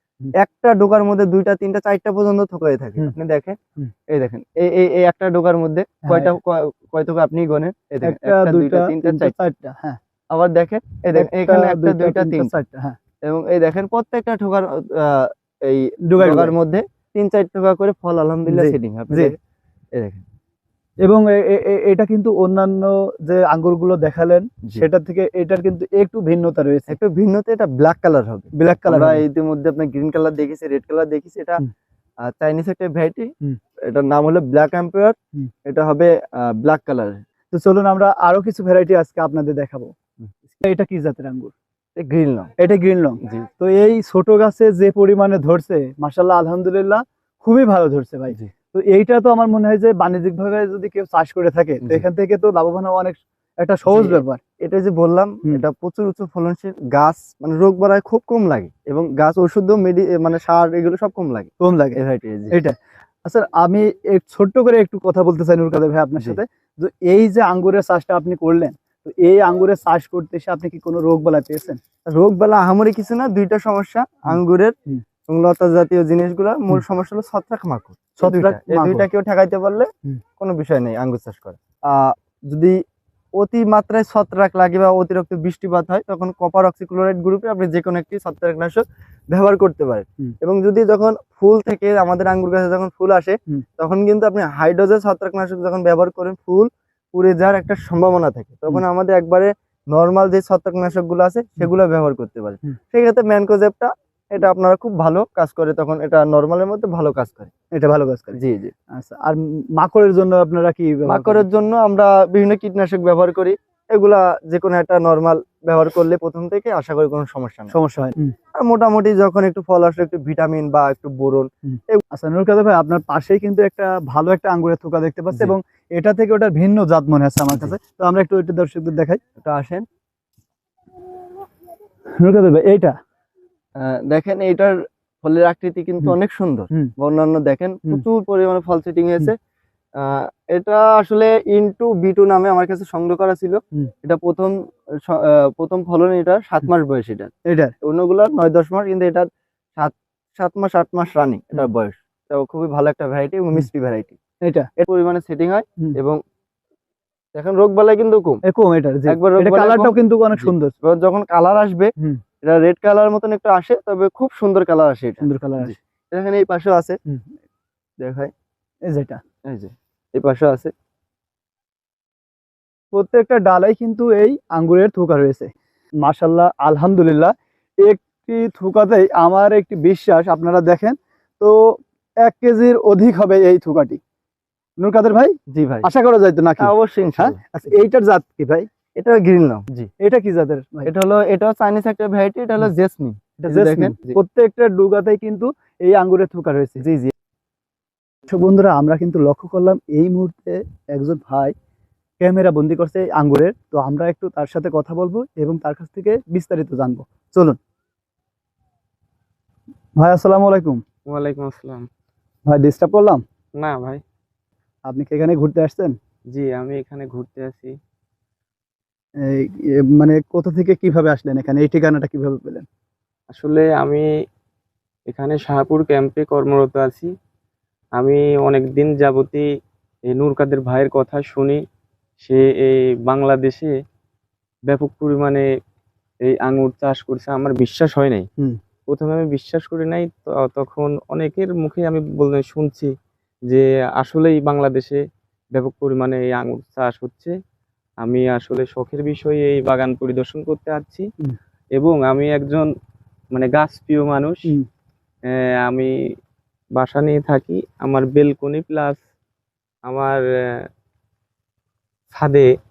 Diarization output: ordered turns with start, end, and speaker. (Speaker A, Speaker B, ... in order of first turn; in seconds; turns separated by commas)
Speaker A: 0.3-3.6, Speaker A: 4.1-9.3, Speaker B: 6.0-6.3, Speaker B: 8.0-10.0, Speaker A: 10.3-12.5, Speaker B: 11.1-13.0, Speaker A: 13.2-19.4, Speaker B: 16.0-16.5, Speaker B: 18.4-19.3, Speaker A: 19.9-20.2, Speaker B: 21.0-26.9, Speaker A: 26.9-31.6, Speaker B: 28.5-29.2, Speaker A: 32.2-33.3, Speaker A: 33.9-37.2, Speaker B: 37.5-39.9, Speaker B: 40.6-41.5, Speaker A: 42.0-42.5, Speaker B: 42.6-54.4, Speaker A: 53.9-62.5, Speaker B: 61.6-62.0, Speaker B: 62.5-71.8, Speaker A: 72.1-74.8, Speaker A: 75.3-79.9, Speaker B: 78.2-79.1, Speaker A: 80.4-82.7, Speaker A: 83.4-107.5, Speaker B: 107.7-108.4, Speaker A: 108.3-108.7, Speaker B: 108.9-111.4, Speaker A: 111.1-117.7, Speaker B: 117.7-118.3, Speaker A: 118.5-122.0, Speaker B: 121.7-129.2, Speaker A: 129.4-129.8, Speaker B: 132.2-132.9, Speaker A: 133.8-139.3, Speaker A: 140.0-147.3, Speaker B: 147.4-147.7, Speaker A: 147.8-149.2, Speaker A: 149.8-154.2, Speaker A: 154.8-156.2, Speaker A: 157.3-158.4, Speaker B: 158.4-160.7, Speaker A: 159.1-161.9, Speaker A: 162.4-167.0, Speaker B: 165.2-165.7, Speaker A: 168.0-168.3, Speaker B: 168.9-169.2, Speaker A: 169.5-170.7, Speaker B: 172.9-175.5, Speaker B: 176.0-184.0, Speaker B: 184.8-188.7, Speaker A: 185.5-185.8, Speaker A: 186.6-187.8, Speaker A: 189.0-189.9, Speaker B: 190.0-190.9, Speaker A: 190.8-194.2, Speaker B: 193.4-196.8, Speaker A: 196.8-197.1, Speaker B: 198.3-201.5, Speaker B: 202.2-207.6, Speaker B: 210.0-210.8, Speaker C: 211.1-211.9, Speaker B: 212.5-213.2, Speaker C: 213.6-214.0, Speaker B: 214.8-215.9, Speaker C: 216.3-217.7, Speaker B: 219.2-222.7, Speaker C: 223.3-224.1, Speaker C: 225.1-227.1, Speaker C: 228.0-229.4, Speaker C: 230.1-231.6, Speaker C: 232.2-233.7, Speaker C: 234.7-235.4, Speaker C: 236.2-238.2, Speaker C: 238.9-242.9, Speaker C: 243.5-245.0, Speaker C: 245.5-247.3, Speaker C: 248.0-251.1, Speaker C: 251.7-252.7, Speaker C: 253.3-254.4, Speaker C: 255.3-255.9, Speaker C: 256.8-259.0, Speaker C: 259.9-260.2, Speaker C: 262.1-262.5